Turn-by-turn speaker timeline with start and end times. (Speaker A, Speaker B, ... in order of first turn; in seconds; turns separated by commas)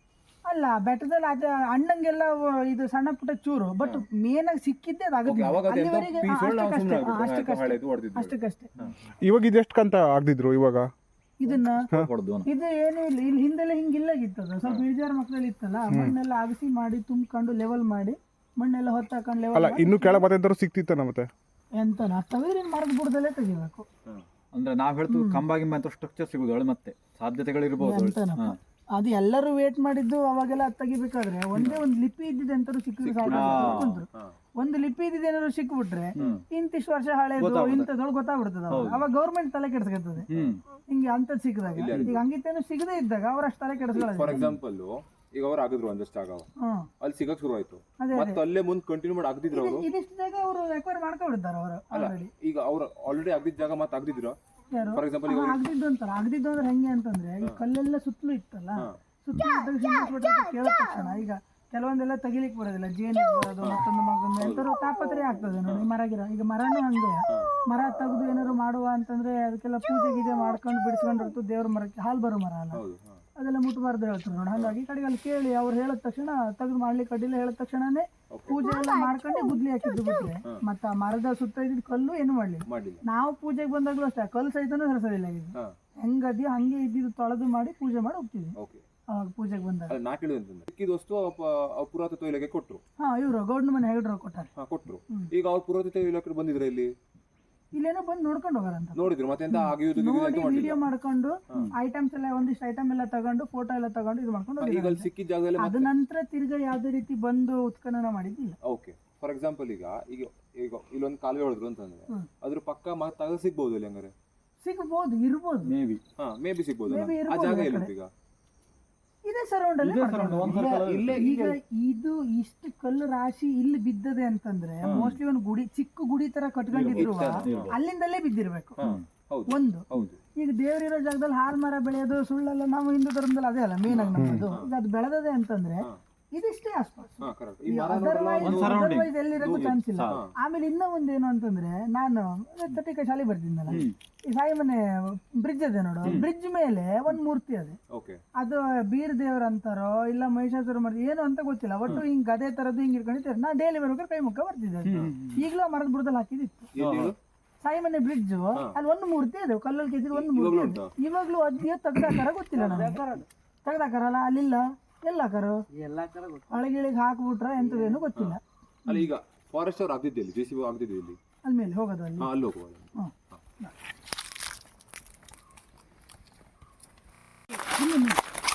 Speaker A: 0.5-8.7, Speaker B: 5.2-8.9, Speaker C: 9.2-10.9, Speaker A: 11.4-11.9, Speaker D: 11.5-12.5, Speaker A: 12.5-20.2, Speaker C: 15.9-16.2, Speaker C: 19.5-21.3, Speaker A: 21.8-23.9, Speaker D: 24.5-28.6, Speaker A: 25.1-25.4, Speaker A: 27.8-40.3, Speaker B: 33.0-34.3, Speaker D: 33.2-34.0, Speaker B: 36.2-36.4, Speaker D: 37.4-37.9, Speaker D: 38.7-39.1, Speaker D: 40.3-40.6, Speaker A: 40.9-44.5, Speaker B: 41.8-42.2, Speaker D: 41.9-42.2, Speaker B: 43.9-46.5, Speaker A: 46.6-46.9, Speaker B: 47.0-49.9, Speaker A: 48.0-48.4, Speaker A: 49.5-52.3, Speaker B: 51.9-54.4, Speaker A: 54.7-72.8, Speaker B: 54.9-55.6, Speaker B: 64.4-64.7, Speaker B: 72.7-73.2, Speaker A: 73.4-88.5, Speaker B: 78.3-78.6, Speaker B: 82.7-83.0, Speaker B: 88.6-88.8, Speaker A: 89.1-90.0, Speaker B: 89.9-92.8, Speaker A: 93.0-94.5, Speaker B: 94.6-96.9, Speaker A: 97.7-105.1, Speaker B: 99.0-100.8, Speaker B: 104.6-105.9, Speaker A: 105.6-108.6, Speaker B: 108.6-114.1, Speaker A: 114.6-115.7, Speaker D: 115.7-116.0, Speaker B: 116.2-118.1, Speaker A: 116.9-117.9, Speaker A: 119.2-128.8, Speaker D: 119.8-121.2, Speaker B: 120.4-121.6, Speaker B: 124.8-125.1, Speaker D: 124.9-125.2, Speaker D: 126.7-127.8, Speaker B: 127.0-127.8, Speaker B: 128.8-130.2, Speaker A: 129.5-147.8, Speaker B: 133.9-134.7, Speaker C: 134.2-134.5, Speaker B: 137.2-140.3, Speaker D: 138.4-140.2, Speaker D: 143.7-144.0, Speaker B: 147.9-148.2, Speaker A: 148.4-156.7, Speaker D: 154.8-155.5, Speaker B: 156.8-157.2, Speaker D: 156.8-157.2, Speaker A: 157.6-163.1, Speaker B: 160.1-160.9, Speaker A: 163.6-165.6, Speaker A: 166.5-169.1, Speaker B: 168.1-171.2, Speaker A: 171.4-172.3, Speaker B: 172.2-173.4, Speaker A: 173.0-173.7, Speaker A: 177.6-178.2